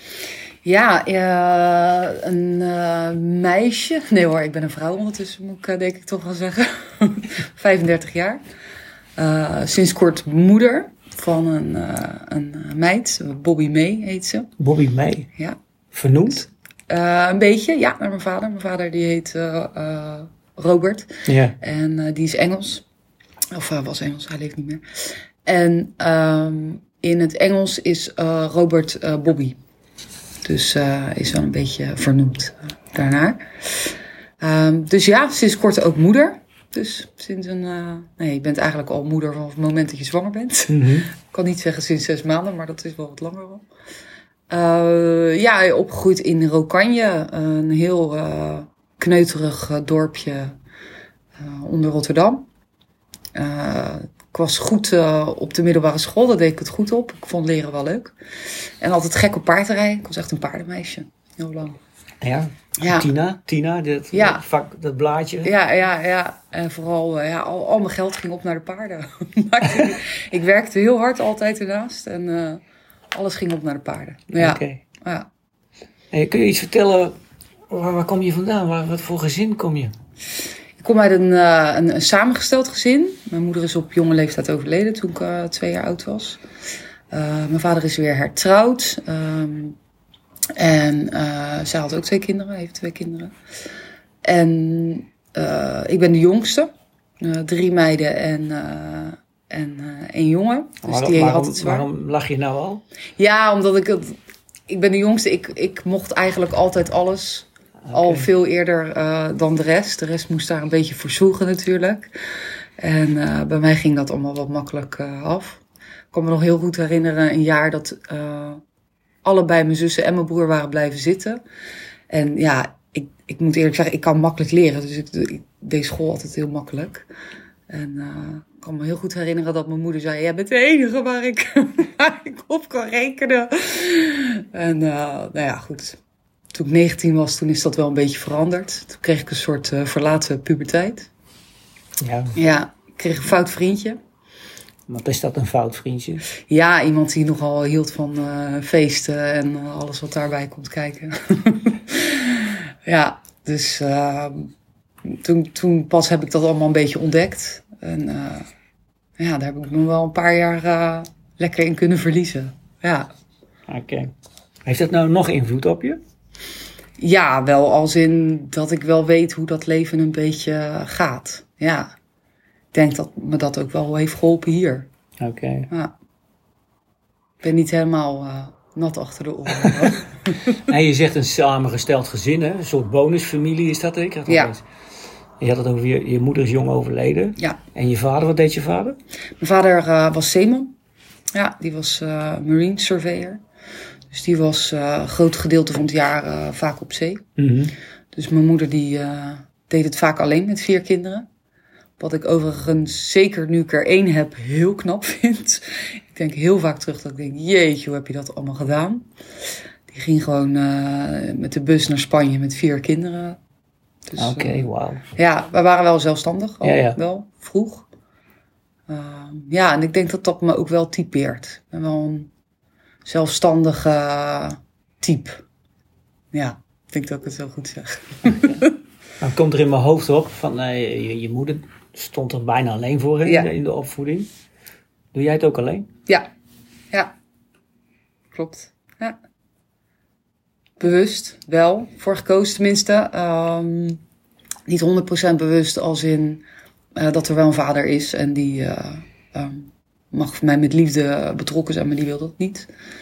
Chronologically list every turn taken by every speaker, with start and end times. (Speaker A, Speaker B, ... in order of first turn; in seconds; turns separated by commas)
Speaker A: 0.6-8.4, Speaker A: 9.2-14.5, Speaker B: 14.6-15.3, Speaker B: 15.9-16.4, Speaker A: 16.3-22.8, Speaker B: 21.3-21.6, Speaker A: 23.5-29.6, Speaker A: 30.4-43.6, Speaker B: 40.7-41.1, Speaker A: 44.5-50.6, Speaker A: 51.4-52.5, Speaker A: 53.3-58.1, Speaker A: 58.8-61.8, Speaker B: 62.2-65.5, Speaker A: 62.8-63.1, Speaker A: 64.1-64.4, Speaker A: 65.4-72.6, Speaker A: 73.1-75.3, Speaker B: 74.3-74.8, Speaker B: 76.1-77.2, Speaker B: 77.7-79.9, Speaker A: 80.8-86.4, Speaker A: 87.1-89.8, Speaker A: 90.5-93.3, Speaker A: 94.2-101.9, Speaker B: 100.8-102.8, Speaker A: 103.2-112.1, Speaker B: 107.8-108.3, Speaker A: 112.8-115.6, Speaker A: 116.1-118.6, Speaker A: 119.2-121.4, Speaker A: 122.1-127.1, Speaker A: 127.7-136.0, Speaker A: 136.5-141.1, Speaker B: 142.0-142.3, Speaker A: 142.3-144.0, Speaker B: 144.9-146.2, Speaker A: 146.5-154.5, Speaker A: 155.0-158.5, Speaker A: 159.2-163.1, Speaker B: 163.7-164.1, Speaker B: 164.6-166.0, Speaker A: 167.0-171.9, Speaker A: 172.7-174.9, Speaker B: 175.2-175.7, Speaker A: 175.7-175.9, Speaker A: 177.4-180.6, Speaker B: 180.7-184.6, Speaker A: 184.3-184.5, Speaker B: 185.4-189.0, Speaker A: 189.4-190.7, Speaker A: 191.3-193.4, Speaker A: 194.1-197.2, Speaker B: 197.4-197.7, Speaker A: 198.1-201.3, Speaker A: 202.0-209.1, Speaker A: 209.9-213.4, Speaker A: 214.1-217.9, Speaker B: 214.2-215.0, Speaker B: 216.6-217.0, Speaker A: 218.9-222.3, Speaker A: 223.1-225.4, Speaker A: 226.3-228.7, Speaker B: 229.2-234.3, Speaker A: 233.2-233.5, Speaker B: 235.1-235.9, Speaker A: 238.3-239.2, Speaker A: 240.8-244.0, Speaker A: 244.7-246.4, Speaker A: 246.9-252.7